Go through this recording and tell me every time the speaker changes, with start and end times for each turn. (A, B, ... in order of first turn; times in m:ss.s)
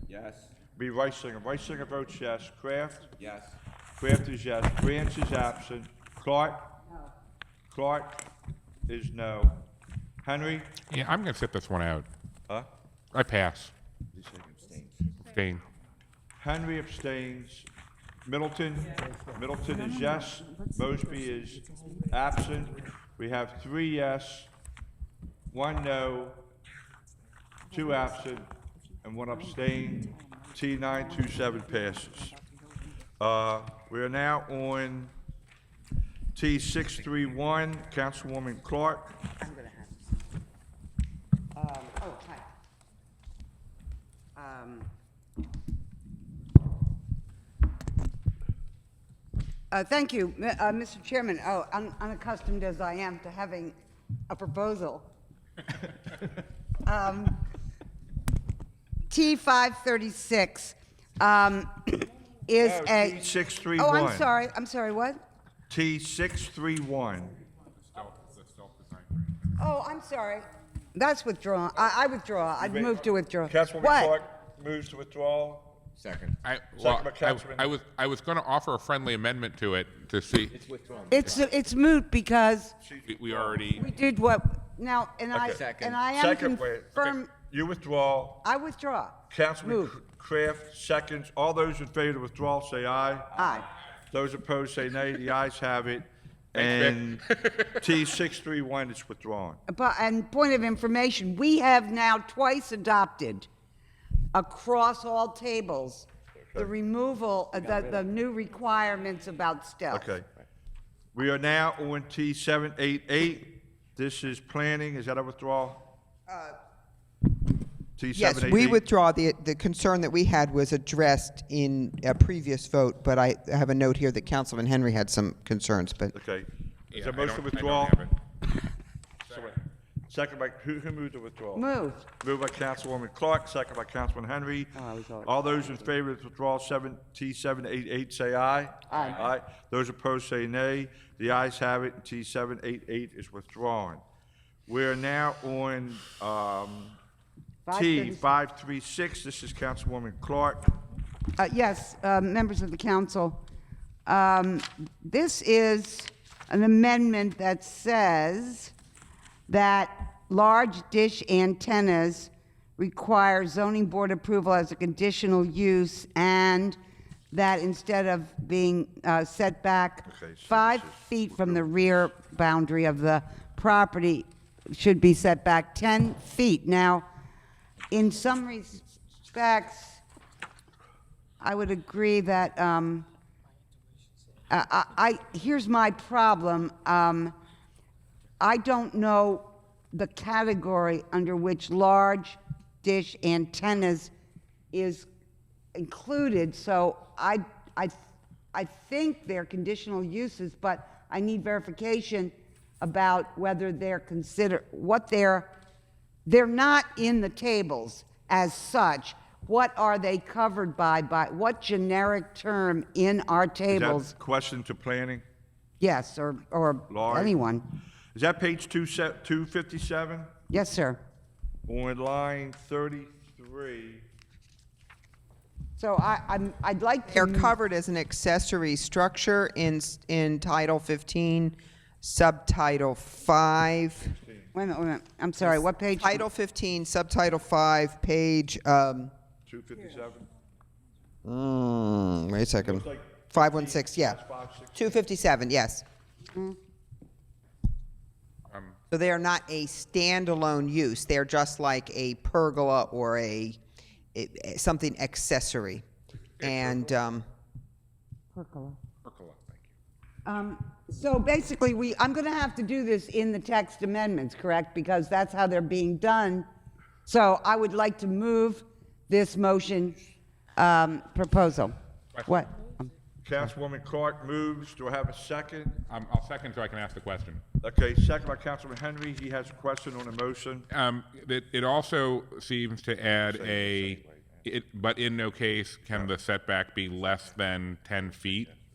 0:00.1-0:00.5 A
0:00.7-0:03.2 B
0:03.2-0:03.6 A
0:04.0-0:06.7 B
0:06.9-0:07.1 C
0:07.7-0:08.2 B
0:08.9-0:09.6 B
0:10.2-0:10.7 B
0:10.9-0:12.1 D
0:13.1-0:13.7 D
0:14.1-0:15.0 A
0:15.2-0:15.6 D
0:16.4-0:17.7 B
0:18.2-0:24.5 B
0:25.5-0:26.4 B
0:27.7-0:28.5 B
0:29.0-0:32.4 B
0:33.2-0:35.1 B
0:36.3-0:39.2 B
0:39.4-0:40.0 C
0:41.5-0:42.4 C
0:44.4-0:44.9 C
0:49.7-0:53.7 C
0:54.3-0:55.1 C
0:56.8-0:57.4 C
0:59.1-1:03.2 C
1:02.6-1:04.3 B
1:03.8-1:05.2 C
1:05.7-1:07.4 B
1:07.8-1:09.4 D
1:09.6-1:14.2 C
1:12.6-1:15.8 B
1:16.0-1:16.3 A
1:16.4-1:20.6 D
1:16.8-1:17.7 B
1:20.5-1:21.4 A
1:21.1-1:22.7 C
1:22.8-1:23.9 B
1:23.0-1:23.9 D
1:23.7-1:27.3 C
1:25.3-1:28.4 B
1:25.5-1:26.0 A
1:28.4-1:30.0 C
1:29.3-1:33.4 B
1:33.3-1:33.7 C
1:34.1-1:39.6 B
1:36.6-1:37.8 D
1:39.7-1:43.5 C
1:44.3-1:50.1 C
1:49.9-1:50.2 B
1:51.1-1:55.8 B
1:58.0-1:58.8 B
1:58.2-2:06.1 E
2:06.1-2:08.0 B
2:06.9-2:08.1 D
2:09.3-2:09.6 D
2:09.3-2:11.6 B
2:11.5-2:12.0 C
2:12.2-2:24.0 B
2:14.7-2:15.9 C
2:18.9-2:19.3 C
2:24.7-2:27.0 B
2:27.6-2:28.3 C
2:27.7-2:30.7 B
2:31.4-2:33.4 C
2:34.0-2:38.7 C
2:39.5-2:46.8 C
2:47.3-2:57.1 C
2:50.0-2:51.7 B
2:57.9-3:00.0 C
3:01.4-3:03.0 C
3:04.5-3:07.3 C
3:08.4-3:14.1 C
3:14.7-3:15.1 C
3:15.7-3:18.0 C
3:18.5-3:25.5 C
3:26.2-3:34.1 C
3:33.7-3:35.2 B
3:35.8-3:37.7 C
3:36.9-3:37.4 B
3:38.1-3:40.3 B
3:40.5-3:41.0 C
3:41.6-3:44.1 B
3:45.8-3:47.5 C
3:47.1-3:54.1 E
3:54.0-3:54.5 B
3:54.5-3:56.2 C
3:55.4-3:59.1 E
3:59.4-4:00.3 B
4:01.2-4:04.2 E
4:02.6-4:04.9 B
4:04.7-4:05.8 E
4:06.3-4:06.6 C
4:08.5-4:08.8 D
4:08.9-4:13.6 E
4:14.1-4:15.8 E
4:16.4-4:16.9 D
4:16.4-4:17.2 E
4:18.3-4:18.8 C
4:19.0-4:19.6 D
4:20.2-4:26.4 C
4:27.0-4:30.0 C
4:30.6-4:31.7 C
4:32.1-4:32.4 D
4:32.2-4:32.9 C
4:33.2-4:35.8 B
4:35.9-4:37.4 D
4:37.6-4:40.6 B
4:40.7-4:48.5 D
4:43.3-4:44.4 B